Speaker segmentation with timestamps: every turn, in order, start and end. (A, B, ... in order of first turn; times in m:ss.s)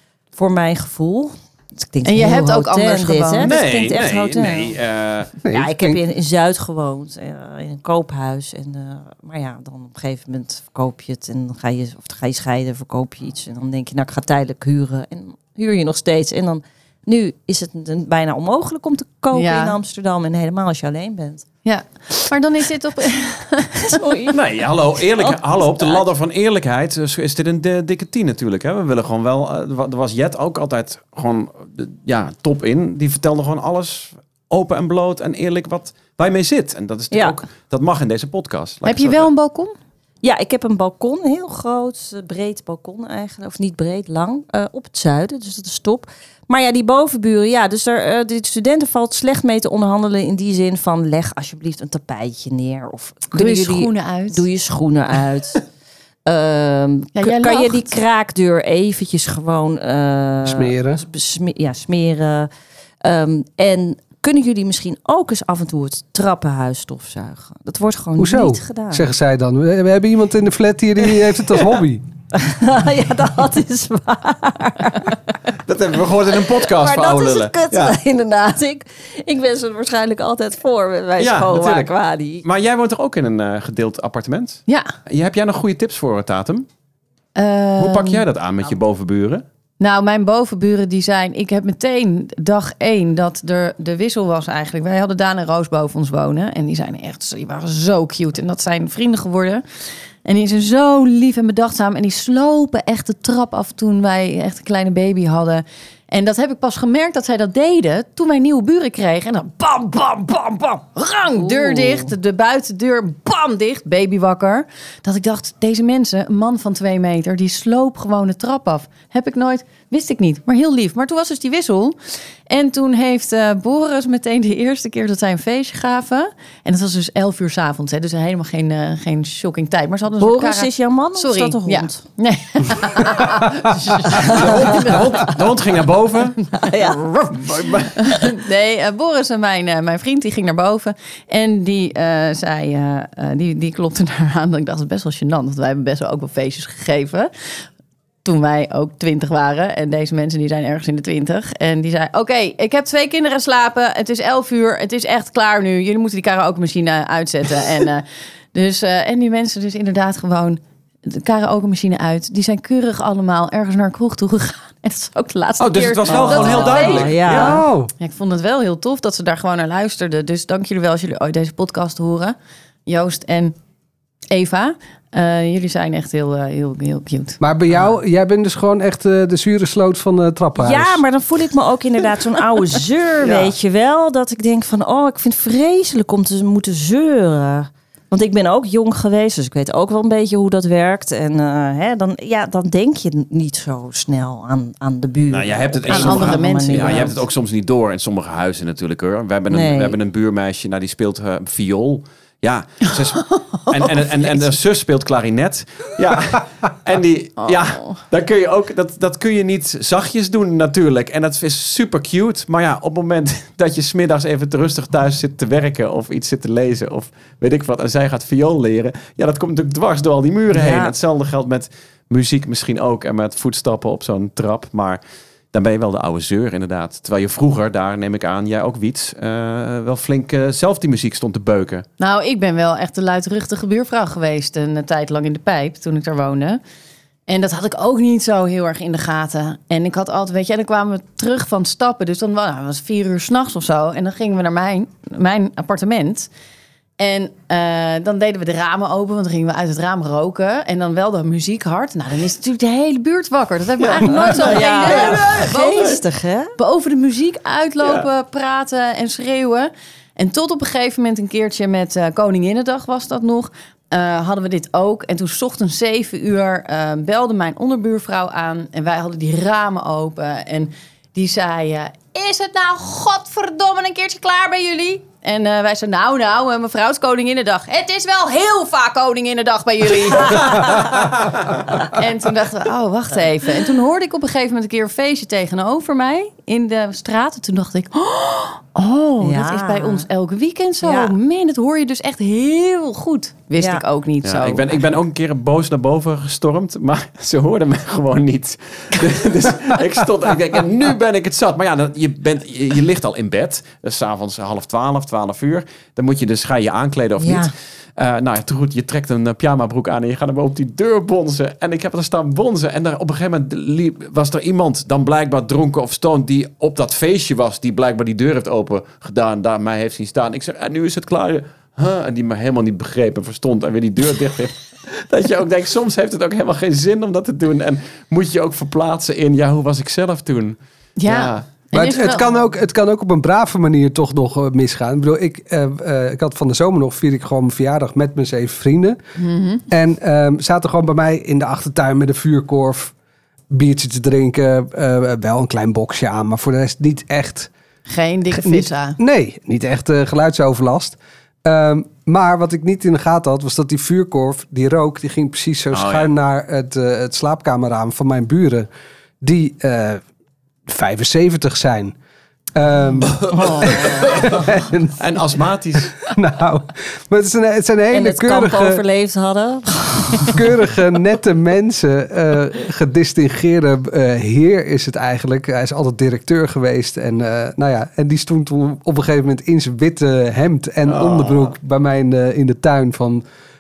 0:00.4-0:04.8 A
0:02.0-0:03.5 B
0:03.4-0:05.3 C
0:05.4-0:06.0 D
0:05.5-0:21.4 A
0:19.3-0:19.8 B
0:21.6-0:24.3 B
0:23.8-0:26.0 A
0:24.3-0:39.3 C
0:37.1-0:37.4 A
0:38.8-0:39.7 B
0:40.2-0:55.6 A
0:53.3-0:54.4 B
0:56.3-1:02.5 A
0:57.2-0:57.9 B
1:00.4-1:01.0 D
1:03.0-1:09.0 A
1:08.2-1:12.0 D
1:12.3-1:15.2 A
1:15.7-1:18.0 C
1:16.3-1:22.4 A
1:21.2-1:21.9 C
1:22.4-1:26.7 C
1:27.4-1:28.2 B
1:27.8-1:29.4 C
1:29.8-1:39.6 B
1:40.2-2:15.4 B
1:51.4-1:52.1 A
2:10.2-2:12.0 A
2:14.1-2:16.4 C
2:14.2-2:15.0 A
2:16.4-2:27.6 B
2:16.6-2:17.0 A
2:17.3-2:18.3 C
2:28.2-2:47.1 B
2:45.6-2:47.6 C
2:46.1-2:47.6 A
2:47.2-2:47.9 D
2:48.0-2:52.4 B
2:52.9-2:53.6 B
2:54.3-2:57.4 B
2:57.4-3:01.0 D
3:00.6-3:17.2 A
3:03.2-3:03.5 C
3:15.3-3:45.0 C
3:15.9-3:17.2 B
3:19.5-3:20.0 A
3:27.4-3:28.0 B
3:40.5-3:40.9 A
3:45.5-3:51.8 C
3:52.0-3:56.6 B
3:57.3-4:06.3 B
4:07.0-4:16.0 B
4:13.8-4:15.9 C
4:14.1-4:16.5 A
4:16.6-4:41.0 B
4:40.3-4:41.6 C
4:41.8-4:54.7 B
4:49.2-4:50.1 A
4:50.8-4:51.1 A
4:54.2-5:31.5 C
5:07.2-5:07.5 A
5:31.0-5:32.3 B
5:31.7-5:39.0 D
5:39.2-5:39.6 B
5:39.7-5:42.9 D
5:43.5-5:47.5 D
5:47.9-5:49.0 B
5:48.3-5:58.7 D
5:55.7-5:56.1 C
5:59.2-6:00.0 D
6:00.7-6:02.0 D
6:02.6-6:05.0 D
6:03.0-6:04.4 C
6:03.3-6:04.4 A
6:05.0-6:06.0 C
6:06.0-6:08.8 D
6:07.9-6:10.5 A
6:10.3-6:23.2 D
6:20.8-6:21.5 C